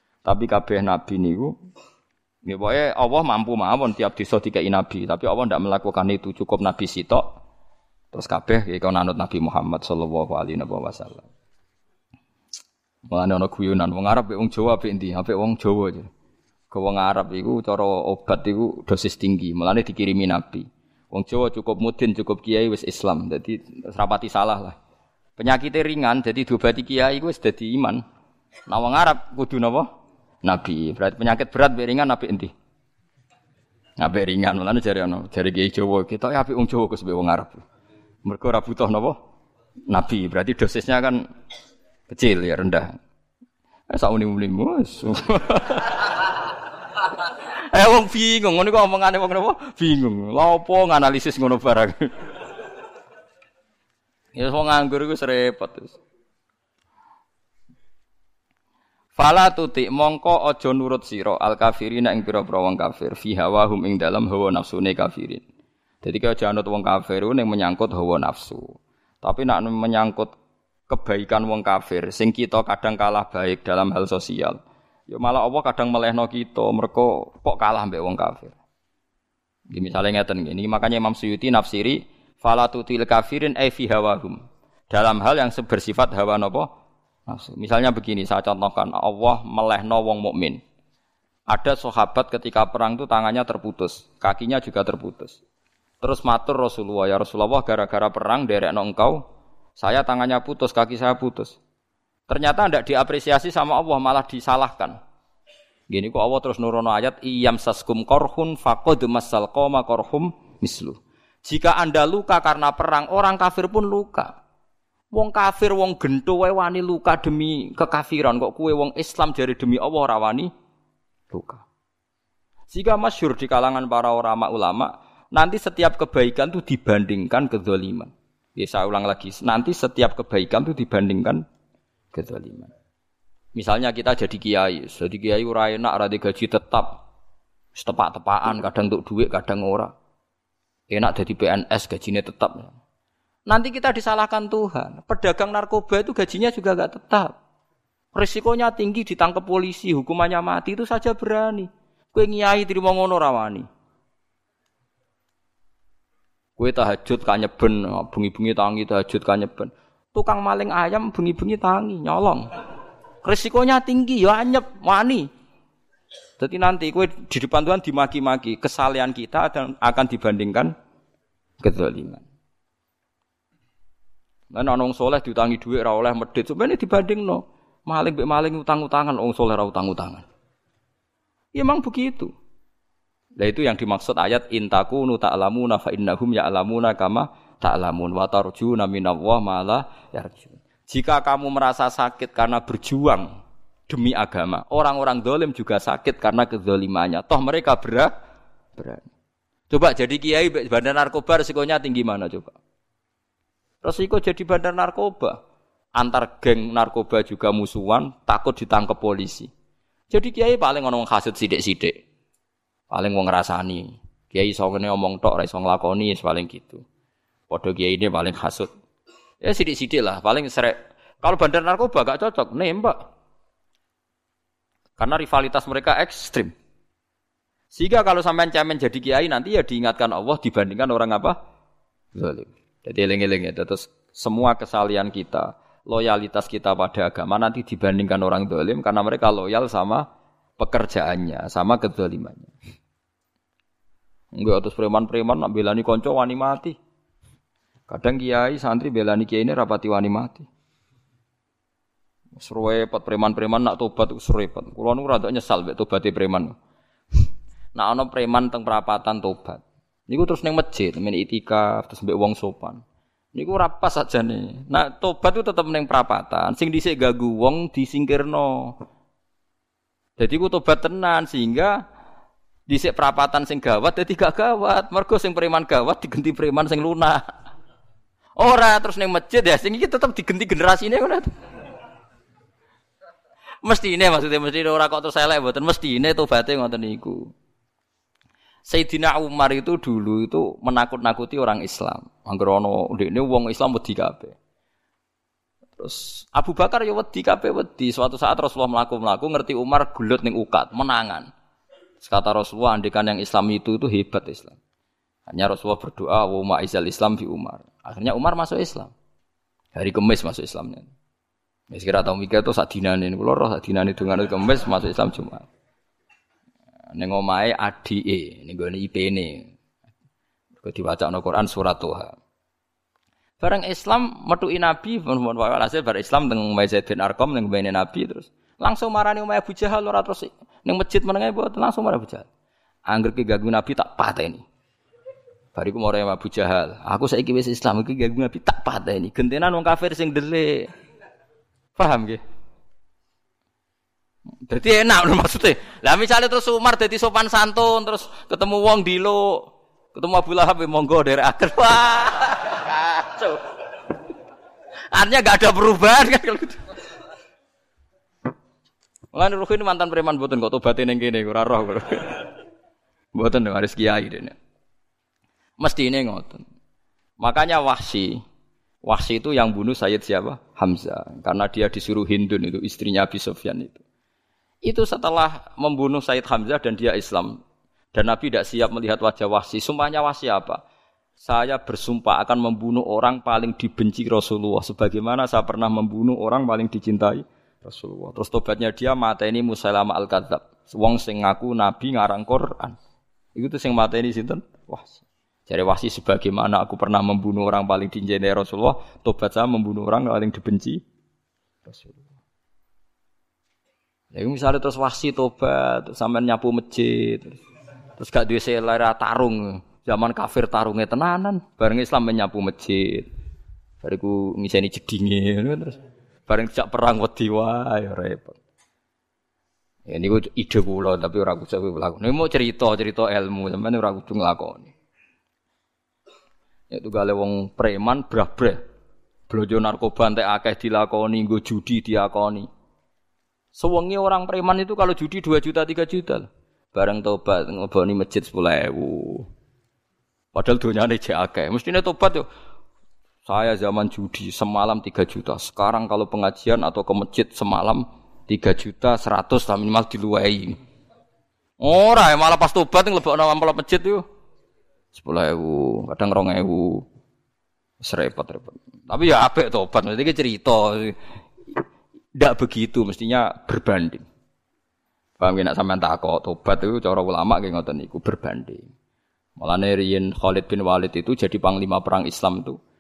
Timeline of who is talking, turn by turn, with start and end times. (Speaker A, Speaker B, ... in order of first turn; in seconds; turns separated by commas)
Speaker A: 0.2-1.5, Speaker A: 2.4-7.3, Speaker A: 8.1-11.3, Speaker A: 13.1-16.1, Speaker A: 16.7-24.8, Speaker A: 25.4-28.0, Speaker A: 28.7-29.9, Speaker A: 30.4-32.5, Speaker A: 34.0-37.6, Speaker A: 38.2-39.1, Speaker A: 39.9-41.2, Speaker A: 42.1-42.9, Speaker A: 43.9-46.3, Speaker A: 47.2-52.3, Speaker A: 54.3-56.0, Speaker A: 59.1-65.4, Speaker A: 66.0-70.3, Speaker A: 70.9-78.5, Speaker A: 79.7-86.7, Speaker A: 87.3-90.6, Speaker A: 91.5-95.4, Speaker A: 96.0-99.2, Speaker A: 99.8-101.6, Speaker A: 102.3-105.0, Speaker A: 105.9-114.3, Speaker A: 115.1-120.5, Speaker A: 121.3-121.6, Speaker A: 122.7-131.4, Speaker A: 132.1-132.7, Speaker A: 133.6-137.0, Speaker A: 137.7-139.9, Speaker A: 140.9-142.8, Speaker A: 143.5-147.3, Speaker A: 148.1-153.7, Speaker A: 156.6-162.5, Speaker A: 163.2-165.3, Speaker A: 166.4-170.7, Speaker A: 171.6-172.2, Speaker A: 174.5-180.2, Speaker A: 181.5-182.3, Speaker A: 183.4-193.3, Speaker A: 193.9-198.1, Speaker A: 198.8-199.1, Speaker A: 199.7-202.6, Speaker A: 203.8-205.4, Speaker A: 205.9-209.5, Speaker A: 210.1-211.9, Speaker A: 212.9-216.8, Speaker A: 217.5-218.7, Speaker A: 219.4-223.0, Speaker A: 225.0-226.5, Speaker A: 227.7-231.3, Speaker A: 232.1-240.0, Speaker A: 240.6-242.5, Speaker A: 244.3-246.8, Speaker A: 247.9-250.5, Speaker A: 252.3-256.5, Speaker A: 257.8-262.8, Speaker A: 263.3-268.7, Speaker A: 270.2-271.8, Speaker A: 272.7-277.2, Speaker A: 278.4-281.3, Speaker A: 283.6-287.3, Speaker A: 288.6-294.4, Speaker A: 295.8-301.3, Speaker A: 302.0-304.6, Speaker A: 305.3-308.9, Speaker A: 309.7-310.9, Speaker A: 311.7-315.5, Speaker A: 316.9-319.5, Speaker A: 320.6-322.2, Speaker A: 323.4-332.3, Speaker A: 332.9-334.4, Speaker A: 335.5-340.7, Speaker A: 341.8-342.2, Speaker A: 344.5-353.4, Speaker A: 354.9-356.6, Speaker A: 359.1-362.3, Speaker A: 363.1-364.3, Speaker A: 365.6-366.4, Speaker A: 367.2-368.2, Speaker A: 368.8-373.8, Speaker A: 374.6-377.4, Speaker A: 377.9-380.6, Speaker A: 381.2-392.8, Speaker A: 393.4-400.8, Speaker A: 401.6-402.1, Speaker A: 404.1-407.4, Speaker A: 408.0-413.1, Speaker A: 413.8-415.8, Speaker A: 416.3-418.4, Speaker A: 419.9-424.7, Speaker A: 426.7-428.6, Speaker A: 429.3-432.5, Speaker A: 433.5-439.3, Speaker A: 440.3-442.2, Speaker A: 443.2-450.5, Speaker A: 451.6-454.0, Speaker A: 454.9-456.8, Speaker A: 457.8-461.0, Speaker A: 462.2-464.0, Speaker A: 465.2-468.7, Speaker A: 469.4-472.6